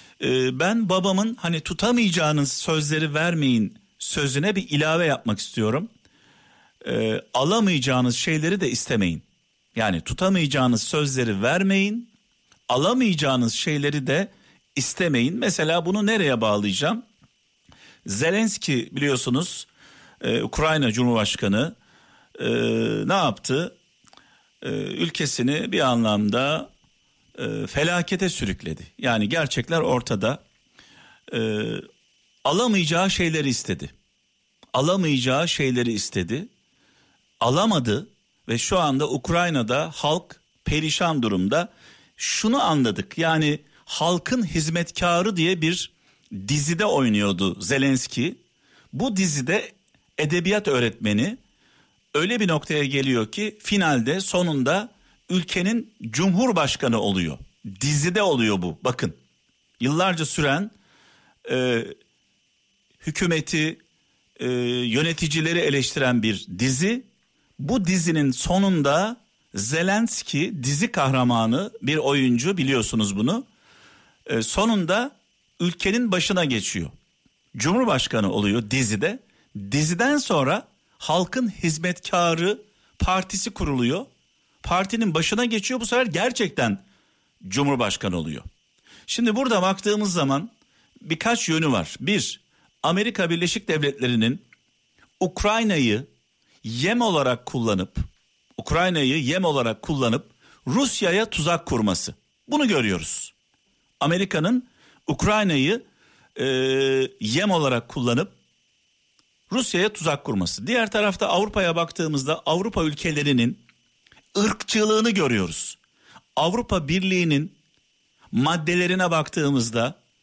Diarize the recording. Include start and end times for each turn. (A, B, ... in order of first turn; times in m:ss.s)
0:00.2-0:05.9 A
0:06.8-0:12.1 A
0:12.7-0:17.0 A
0:18.0-0:19.7 A
0:20.2-0:21.8 A
0:22.4-0:23.8 A
0:24.6-0:26.7 A
0:27.4-0:30.4 A
0:31.3-0:31.8 A
0:32.4-0:33.9 A
0:34.7-0:36.5 A
0:37.4-0:48.4 A
0:48.9-0:51.4 A
0:52.1-0:59.2 A
0:59.8-1:00.7 A
1:01.4-1:02.0 A
1:03.0-1:03.8 A
1:04.4-1:07.1 A
1:07.6-1:13.5 A
1:14.3-1:16.9 A
1:17.6-1:24.1 A
1:24.6-1:26.8 A
1:27.4-1:28.4 A
1:29.1-1:30.5 A
1:31.0-1:34.4 A
1:35.2-1:36.1 A
1:36.6-1:38.0 A
1:38.6-1:43.3 A
1:44.0-1:45.8 A
1:46.4-1:48.4 A
1:49.5-1:53.6 A
1:54.3-1:55.8 A
1:56.4-1:57.6 A
1:58.3-2:00.0 A